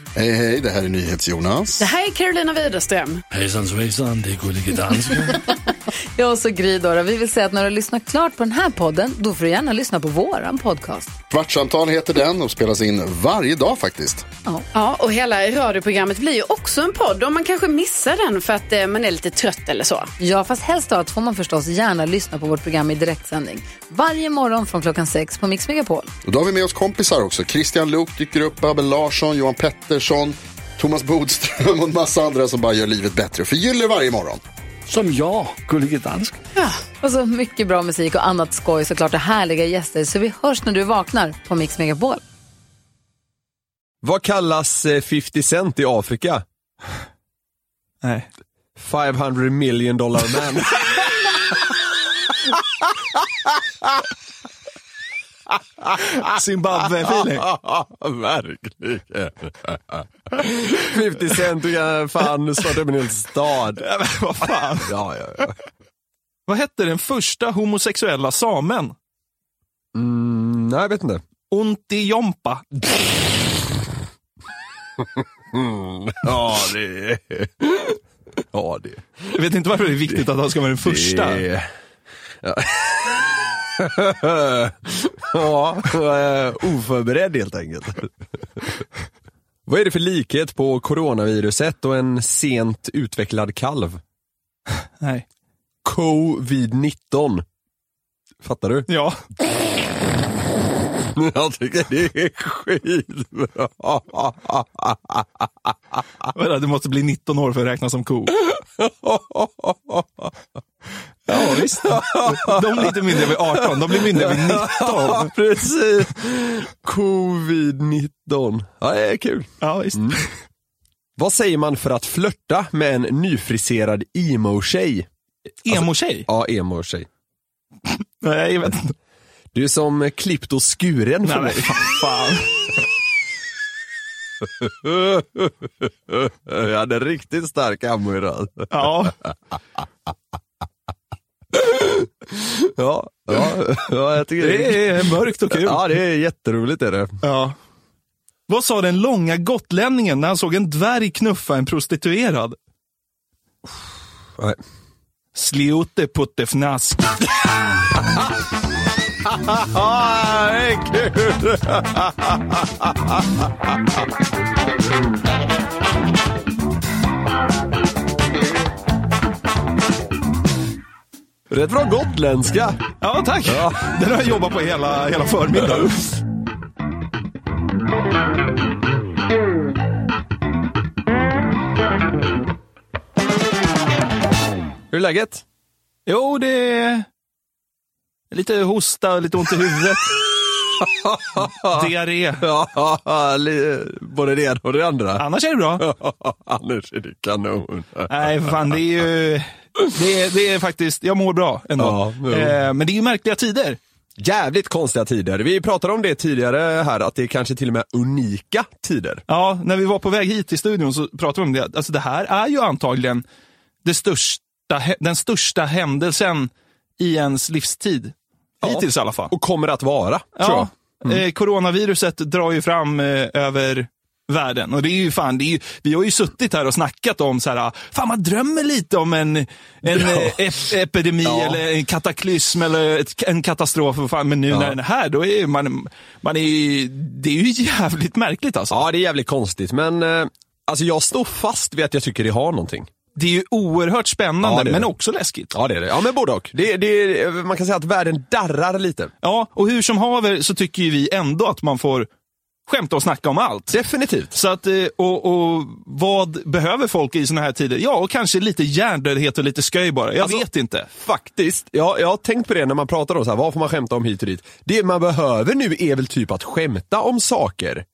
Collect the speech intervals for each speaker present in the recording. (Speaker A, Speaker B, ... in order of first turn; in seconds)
Speaker A: 0.1-1.8, 11.3-14.2, 26.2-34.4
Speaker B: 1.8-3.2, 14.7-20.1
Speaker C: 3.3-5.4, 34.9-36.4
Speaker D: 6.2-11.1, 20.2-26.1, 36.6-42.2
Speaker E: 44.0-46.4, 48.8-51.7, 52.5-54.0, 55.8-56.2, 57.0-63.8, 64.8-65.6, 69.9-71.2, 75.0-79.3, 80.8-81.7, 82.4-88.6, 89.7-94.0, 95.8-97.4, 98.4-98.9, 101.0-105.7, 108.5-110.3, 111.3-120.2, 121.2-125.1, 125.7-127.1, 129.5-131.9, 134.4-138.9, 141.5-147.2, 157.9-158.3, 159.2-164.0, 171.5-172.8, 173.4-173.9, 184.9-185.4, 190.8-191.9, 192.4-195.2, 195.8-198.5, 201.8-202.6, 204.2-209.2, 218.6-221.2, 229.8-230.4, 231.2-231.6, 234.5-234.8, 238.7-242.9, 244.4-244.9, 245.5-249.1, 253.7-254.3, 260.2-267.9
Speaker F: 48.0-48.3, 56.1-57.5, 63.8-64.9, 66.5-68.9, 71.5-72.6, 79.3-81.4, 98.9-99.2, 106.3-108.4, 111.3-115.3, 119.6-120.3, 125.6-126.3, 127.9-128.9, 131.2-132.6, 138.7-139.2, 144.4-145.9, 147.2-147.5, 148.5-152.6, 155.3-157.1, 173.0-176.2, 186.1-187.1, 188.3-190.3, 191.6-192.4, 195.2-195.8, 198.1-203.8, 209.3-213.2, 213.8-219.3, 220.4-238.8, 243.2-245.5, 249.2-252.1, 252.7-253.8, 254.3-260.9